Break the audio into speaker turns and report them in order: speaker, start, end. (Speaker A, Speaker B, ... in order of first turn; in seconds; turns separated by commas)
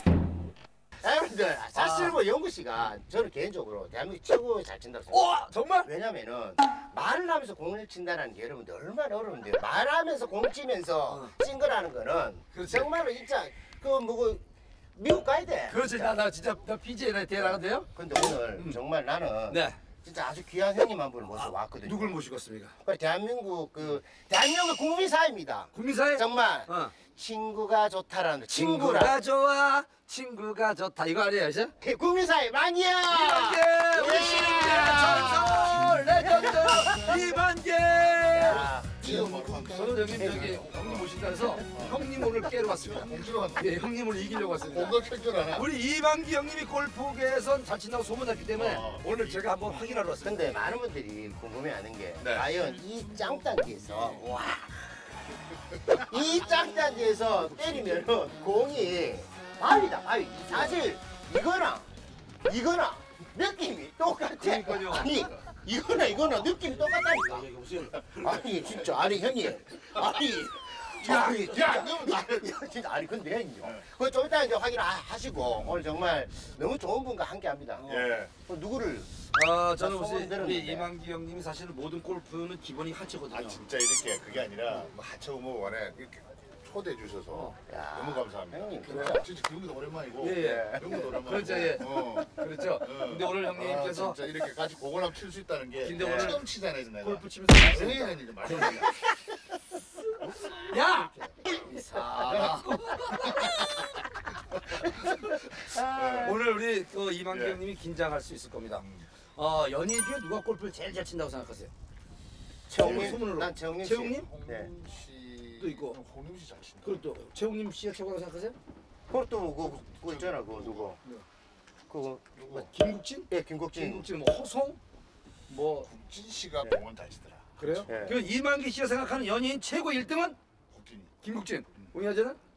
Speaker A: 1.0-14.4, Speaker B: 1.8-2.2, Speaker B: 5.1-5.9, Speaker B: 12.5-12.9, Speaker A: 14.9-16.2, Speaker B: 15.7-18.8, Speaker A: 17.3-22.2, Speaker B: 19.5-19.8, Speaker B: 21.3-22.8, Speaker A: 22.8-29.2, Speaker B: 25.7-26.9, Speaker B: 28.5-31.7, Speaker A: 31.8-37.4, Speaker B: 33.1-38.7, Speaker C: 35.8-36.2, Speaker A: 38.3-39.5, Speaker C: 38.9-41.1, Speaker B: 39.6-50.5, Speaker A: 40.1-40.7, Speaker C: 41.7-42.0, Speaker C: 42.6-43.8, Speaker C: 44.6-45.7, Speaker C: 48.6-49.4, Speaker A: 50.2-54.8, Speaker C: 52.2-52.6, Speaker C: 53.2-54.3, Speaker A: 55.9-61.9, Speaker A: 62.5-79.1, Speaker B: 64.4-65.1, Speaker B: 66.6-68.7, Speaker B: 71.0-71.9, Speaker C: 71.1-72.3, Speaker B: 77.8-78.1, Speaker C: 77.9-78.3, Speaker B: 79.2-83.6, Speaker A: 79.7-80.9, Speaker C: 83.3-98.9, Speaker A: 87.7-89.3, Speaker B: 88.9-89.2, Speaker B: 90.2-94.2, Speaker A: 90.3-91.0, Speaker B: 95.8-96.4, Speaker A: 96.0-96.4, Speaker B: 97.0-99.0, Speaker B: 100.4-101.3, Speaker A: 101.5-102.7, Speaker B: 101.9-103.5, Speaker C: 102.2-102.7, Speaker B: 105.0-111.7, Speaker A: 105.6-106.4, Speaker C: 105.9-106.4, Speaker C: 107.3-107.6, Speaker C: 108.8-109.1, Speaker A: 112.7-114.7, Speaker B: 112.7-114.3, Speaker C: 112.8-113.2, Speaker C: 114.2-117.1, Speaker B: 115.6-116.0, Speaker B: 116.8-118.6, Speaker A: 119.1-121.0, Speaker C: 120.1-121.2, Speaker A: 121.9-122.7, Speaker B: 122.5-124.8, Speaker A: 123.3-124.1, Speaker B: 125.5-125.9, Speaker C: 125.8-128.1, Speaker B: 127.6-130.4, Speaker A: 127.9-128.2, Speaker C: 130.7-131.2, Speaker B: 131.2-132.4